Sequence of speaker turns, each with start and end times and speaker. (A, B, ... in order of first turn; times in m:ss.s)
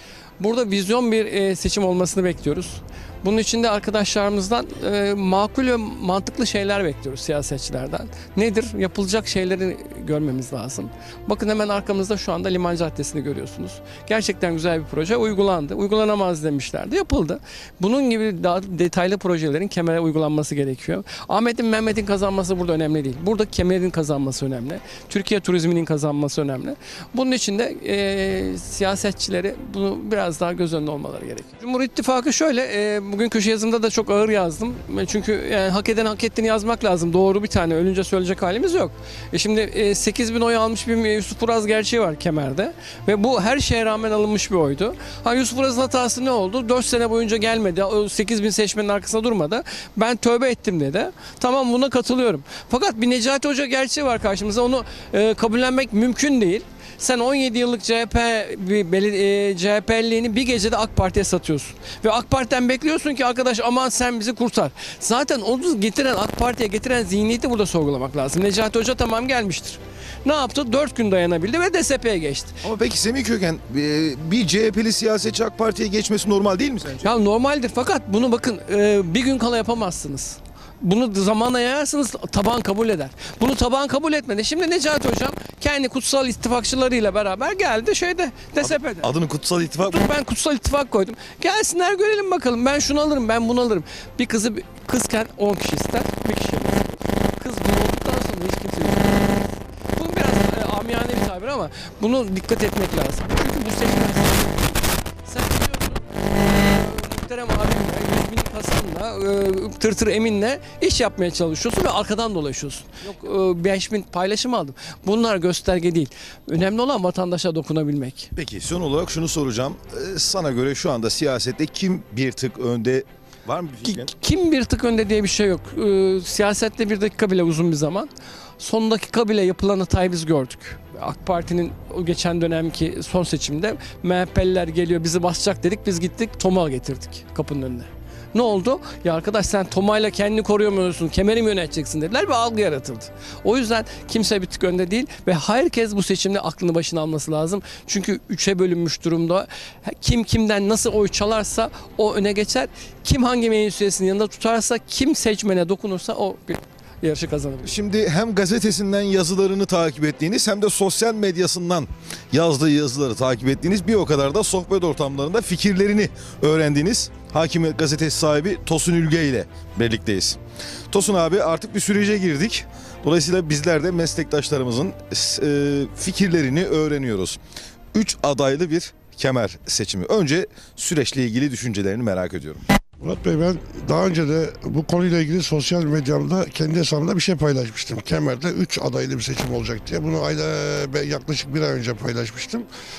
0:00.4-1:12.6 A
1:12.6-1:17.0 B
1:17.0-1:29.1 A
1:28.6-1:30.0 B
1:29.7-1:58.3 A
1:58.4-2:04.1 B
2:03.8-2:37.8 A
2:37.6-2:50.4 B
2:50.9-2:57.4 B
2:57.9-3:02.6 B
3:03.0-3:12.7 C